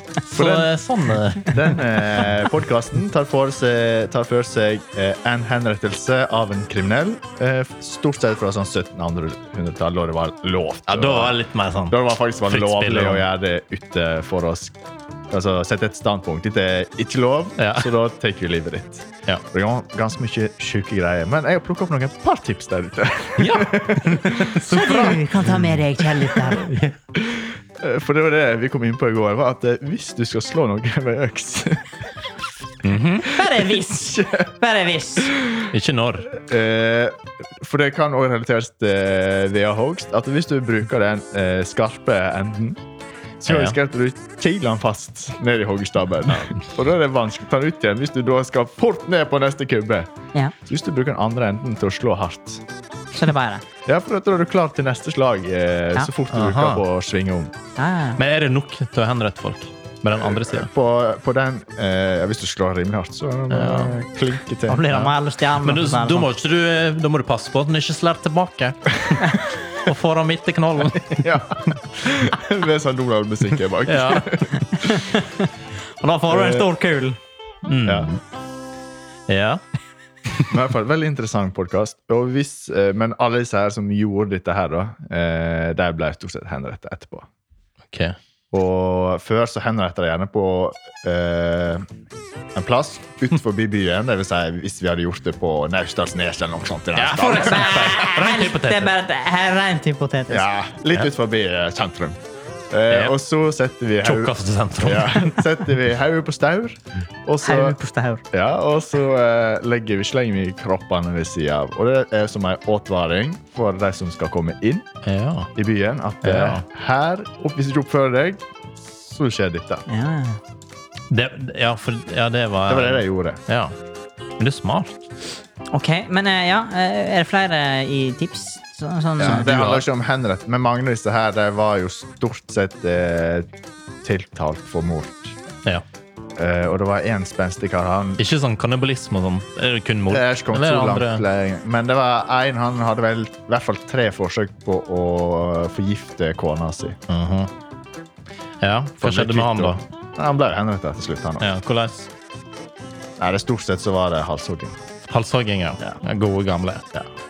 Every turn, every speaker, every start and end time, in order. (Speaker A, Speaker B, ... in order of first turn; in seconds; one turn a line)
Speaker A: 0.2-1.7
Speaker B: 0.3-0.7
Speaker B: 1.4-11.4
Speaker A: 10.9-13.3
Speaker B: 11.9-14.8
Speaker B: 15.3-24.6
Speaker A: 17.6-17.9
Speaker A: 23.4-25.8
Speaker C: 24.7-26.7
Speaker A: 26.3-27.0
Speaker B: 27.1-31.9
Speaker A: 32.8-33.3
Speaker C: 33.2-35.4
Speaker B: 33.3-34.5
Speaker B: 35.3-35.7
Speaker A: 35.7-36.3
Speaker B: 36.3-42.8
Speaker B: 43.4-50.1
Speaker A: 43.5-43.8
Speaker A: 46.3-46.5
Speaker B: 50.6-52.6
Speaker C: 53.1-53.6
Speaker B: 53.9-57.5
Speaker A: 56.3-56.8
Speaker C: 57.8-58.2
Speaker A: 58.2-60.7
Speaker B: 60.1-65.1
Speaker A: 63.5-63.9
Speaker C: 64.7-66.3
Speaker A: 65.6-71.8
Speaker B: 71.2-75.0
Speaker A: 73.8-74.5
Speaker C: 74.7-75.5
Speaker C: 76.0-77.2
Speaker B: 76.3-76.7
Speaker A: 77.6-78.2
Speaker A: 79.3-79.6
Speaker B: 80.5-87.3
Speaker A: 87.9-88.2
Speaker B: 88.5-91.8
Speaker B: 92.5-98.0
Speaker A: 96.9-98.9
Speaker C: 97.4-100.5
Speaker B: 100.3-102.2
Speaker B: 102.7-107.8
Speaker A: 102.9-103.1
Speaker A: 104.0-105.3
Speaker C: 107.4-108.2
Speaker B: 108.3-114.9
Speaker A: 115.0-115.5
Speaker B: 115.5-119.8
Speaker A: 116.2-116.6
Speaker C: 119.9-120.4
Speaker A: 121.1-123.7
Speaker B: 122.7-123.4
Speaker A: 124.4-125.1
Speaker C: 125.7-129.5
Speaker B: 129.2-133.5
Speaker A: 129.2-129.8
Speaker B: 134.0-135.4
Speaker B: 136.4-138.2
Speaker A: 138.2-141.2
Speaker B: 140.1-147.0
Speaker A: 147.1-147.5
Speaker A: 148.6-149.8
Speaker B: 149.0-151.5
Speaker A: 151.4-152.1
Speaker B: 153.2-154.8
Speaker A: 155.1-157.1